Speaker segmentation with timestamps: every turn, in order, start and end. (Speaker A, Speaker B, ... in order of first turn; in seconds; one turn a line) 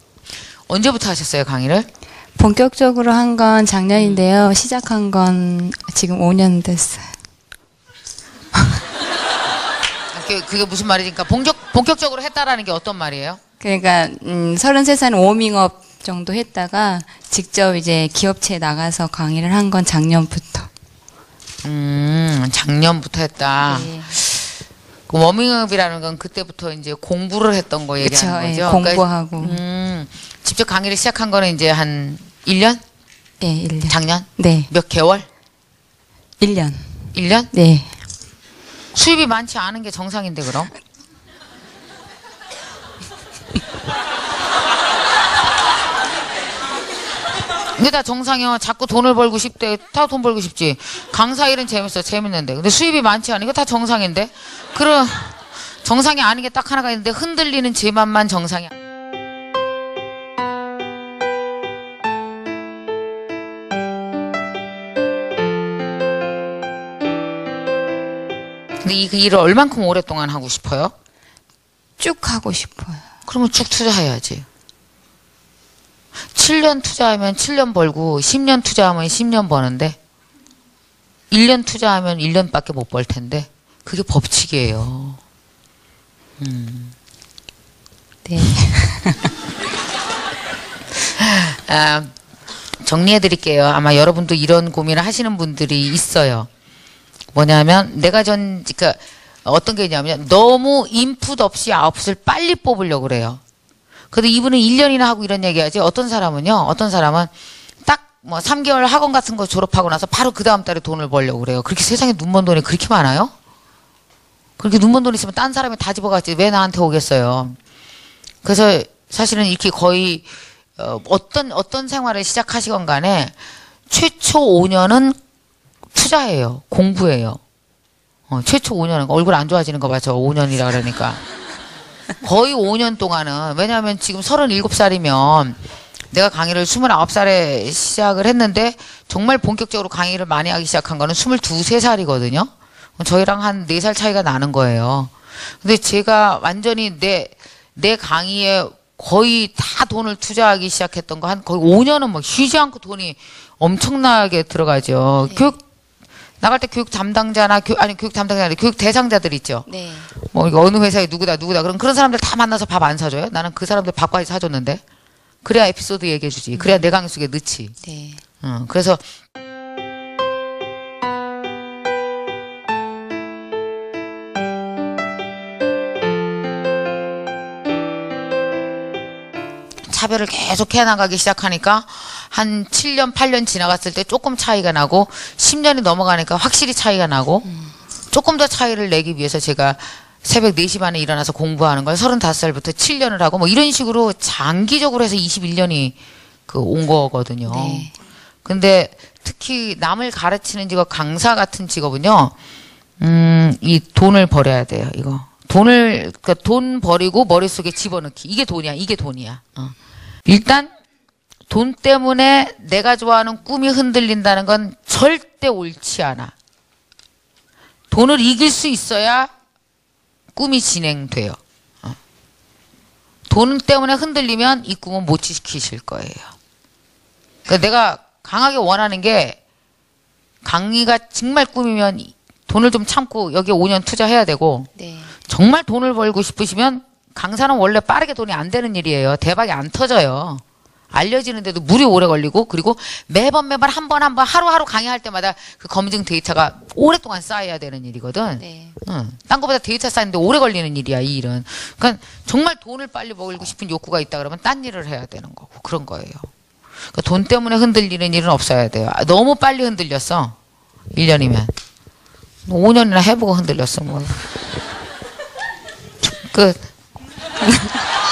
Speaker A: 0.7-1.9
Speaker B: 2.4-7.1
Speaker A: 4.0-4.2
Speaker A: 10.1-13.4
Speaker B: 13.6-20.7
Speaker A: 21.6-24.5
Speaker B: 23.6-24.2
Speaker A: 25.1-32.8
Speaker B: 28.0-29.6
Speaker B: 33.4-34.7
Speaker A: 33.9-35.3
Speaker B: 36.4-38.0
Speaker A: 37.1-37.5
Speaker A: 38.9-40.7
Speaker A: 47.8-58.7
Speaker A: 68.8-70.9
Speaker B: 72.0-73.0
Speaker A: 73.3-74.5
Speaker A: 76.3-80.0
Speaker A: 81.3-85.2
Speaker A: 86.4-86.9
Speaker B: 88.2-89.3
Speaker A: 91.2-92.1
Speaker A: 92.8-96.5
Speaker A: 97.3-103.4
Speaker A: 104.1-107.3
Speaker A: 107.9-113.3
Speaker A: 114.6-117.6
Speaker A: 118.4-123.3
Speaker A: 123.9-125.2
Speaker A: 125.9-127.4
Speaker A: 128.3-131.2
Speaker A: 132.2-135.6
Speaker A: 136.1-155.6
Speaker B: 155.3-155.6
Speaker A: 156.4-164.8
Speaker B: 159.7-160.1
Speaker A: 165.4-167.8
Speaker B: 166.6-166.9
Speaker B: 167.8-168.2
Speaker A: 168.4-169.0
Speaker A: 179.9-187.5
Speaker B: 187.5-187.7
Speaker A: 188.1-195.9
Speaker A: 196.5-197.9
Speaker B: 197.5-197.9
Speaker A: 198.4-202.3
Speaker A: 203.0-209.8
Speaker A: 210.3-210.7
Speaker A: 211.5-216.3
Speaker A: 217.9-219.3
Speaker A: 220.3-222.0
Speaker A: 223.3-226.3
Speaker A: 227.5-229.4
Speaker A: 230.4-234.7
Speaker B: 234.8-235.2
Speaker A: 235.2-256.3
Speaker B: 248.4-248.8
Speaker A: 256.9-260.4
Speaker A: 260.9-261.5
Speaker A: 262.5-264.2
Speaker A: 266.0-266.7
Speaker B: 267.4-267.8